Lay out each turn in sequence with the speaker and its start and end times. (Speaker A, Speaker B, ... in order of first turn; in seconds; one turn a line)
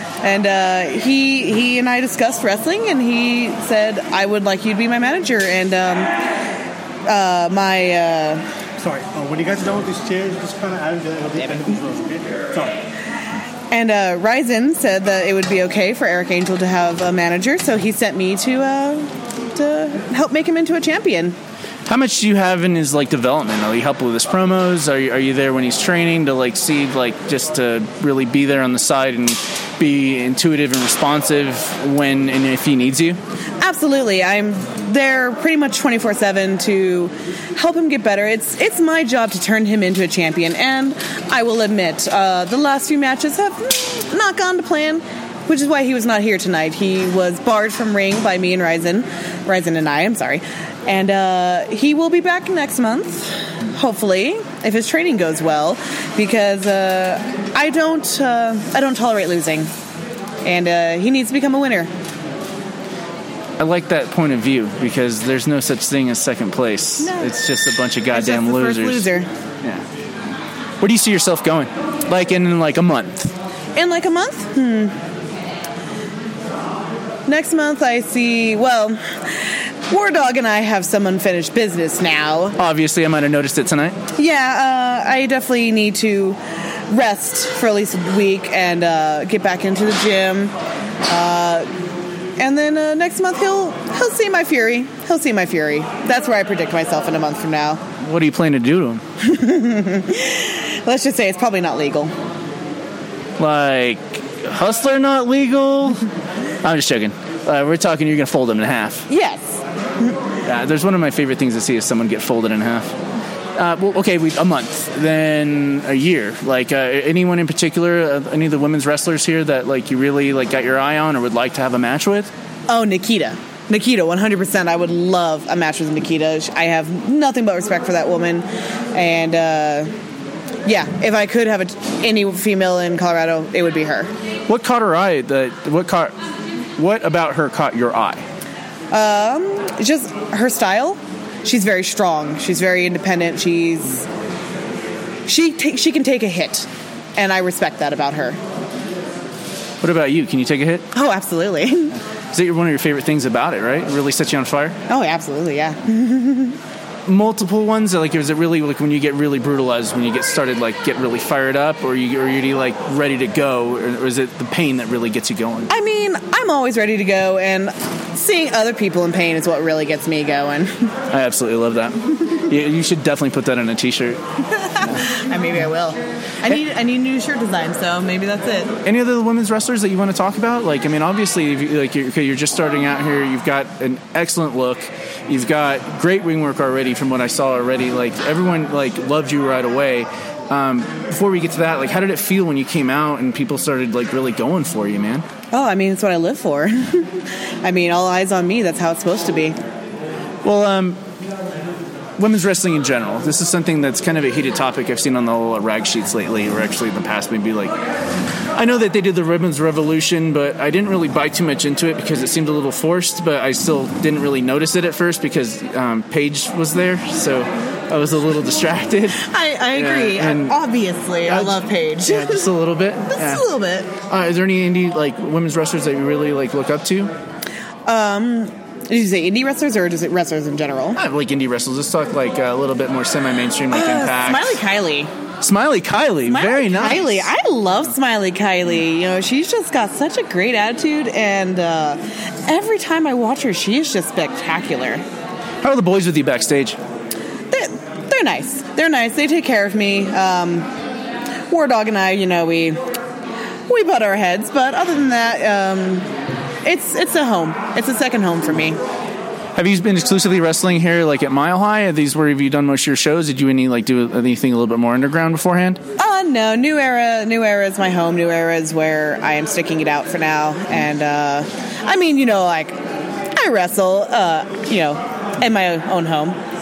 Speaker A: 0.2-6.2
Speaker A: 7.1-8.4
Speaker B: 8.8-12.7
Speaker A: 11.4-11.8
Speaker A: 13.7-21.4
Speaker C: 21.9-33.2
Speaker A: 33.6-59.7
Speaker A: 60.4-61.9
Speaker C: 63.6-69.0
Speaker A: 67.0-67.3
Speaker A: 68.1-69.3
Speaker C: 70.8-73.3
Speaker A: 73.8-75.0
Speaker A: 77.3-82.6
Speaker C: 82.6-84.0
Speaker A: 84.2-90.5
Speaker A: 91.1-91.7
Speaker A: 92.4-97.8
Speaker C: 98.0-99.0
Speaker A: 99.2-102.1
Speaker C: 103.4-106.1
Speaker C: 106.6-109.1
Speaker A: 109.1-110.2
Speaker C: 110.4-113.0
Speaker C: 113.6-122.3
Speaker A: 122.7-129.9
Speaker A: 130.7-134.1
Speaker C: 134.5-136.2
Speaker C: 136.8-138.2
Speaker A: 138.9-144.1
Speaker A: 145.3-148.4
Speaker C: 149.8-150.9
Speaker A: 150.9-152.0
Speaker C: 152.3-154.8
Speaker A: 154.9-156.6
Speaker C: 157.1-165.7
Speaker A: 165.7-170.9
Speaker C: 171.1-174.2
Speaker A: 174.5-178.8
Speaker C: 178.8-195.2
Speaker A: 195.5-199.6
Speaker C: 200.4-201.0
Speaker C: 202.2-207.7
Speaker C: 208.6-220.6
Speaker A: 219.2-222.5
Speaker C: 221.3-223.4
Speaker A: 223.1-223.9
Speaker C: 224.0-227.1
Speaker A: 227.9-231.0
Speaker C: 231.0-234.6
Speaker A: 233.7-235.1
Speaker C: 235.4-237.3
Speaker A: 236.3-245.0
Speaker C: 245.6-246.8
Speaker A: 247.5-250.7
Speaker A: 251.5-252.8
Speaker A: 253.7-256.1
Speaker A: 256.6-258.8
Speaker C: 259.6-265.8
Speaker A: 266.0-272.8
Speaker A: 273.3-276.4